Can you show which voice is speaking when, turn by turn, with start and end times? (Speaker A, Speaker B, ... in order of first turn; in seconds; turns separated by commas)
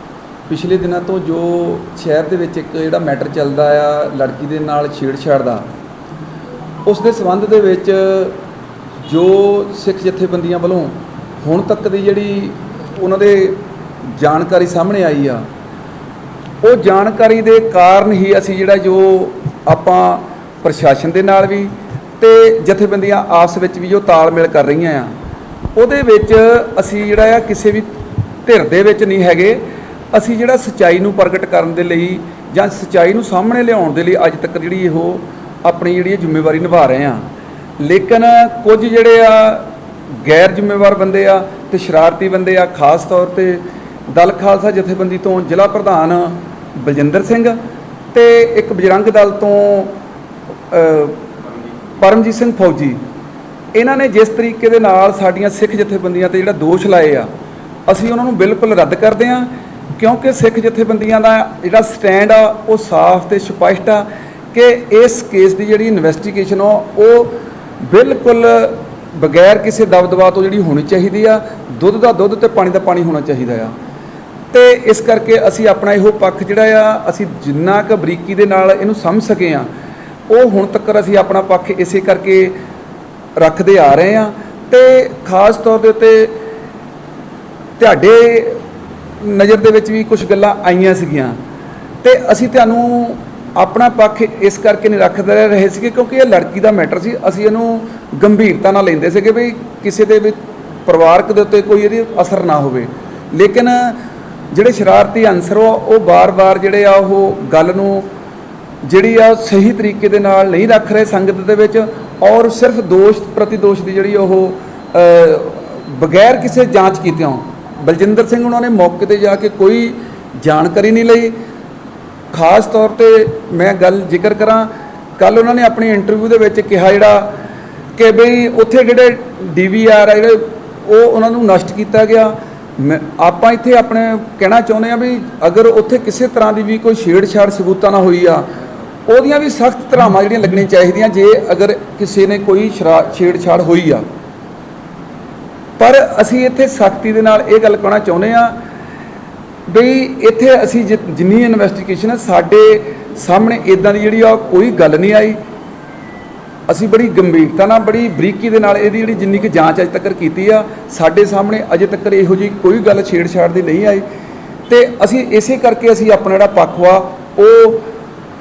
Speaker A: 0.5-5.7, Speaker A: 6.8-8.4, Speaker A: 9.1-13.6, Speaker A: 14.2-15.4, Speaker A: 16.6-25.1, Speaker A: 25.8-27.9, Speaker A: 28.5-29.6, Speaker A: 30.1-37.2, Speaker A: 37.8-39.7, Speaker A: 40.2-47.6, Speaker A: 48.1-49.9, Speaker A: 50.7-51.2, Speaker A: 52.0-53.0, Speaker A: 53.8-57.3, Speaker A: 57.9-73.7, Speaker A: 74.5-79.7, Speaker A: 80.3-82.5, Speaker A: 83.4-86.4, Speaker A: 87.8-88.6, Speaker A: 89.2-91.4, Speaker A: 92.0-104.0, Speaker A: 104.5-108.0, Speaker A: 108.8-121.3, Speaker A: 122.3-127.3, Speaker A: 128.0-138.5, Speaker A: 139.1-144.0, Speaker A: 145.8-148.6, Speaker A: 149.7-155.4, Speaker A: 156.7-164.0, Speaker A: 164.7-167.8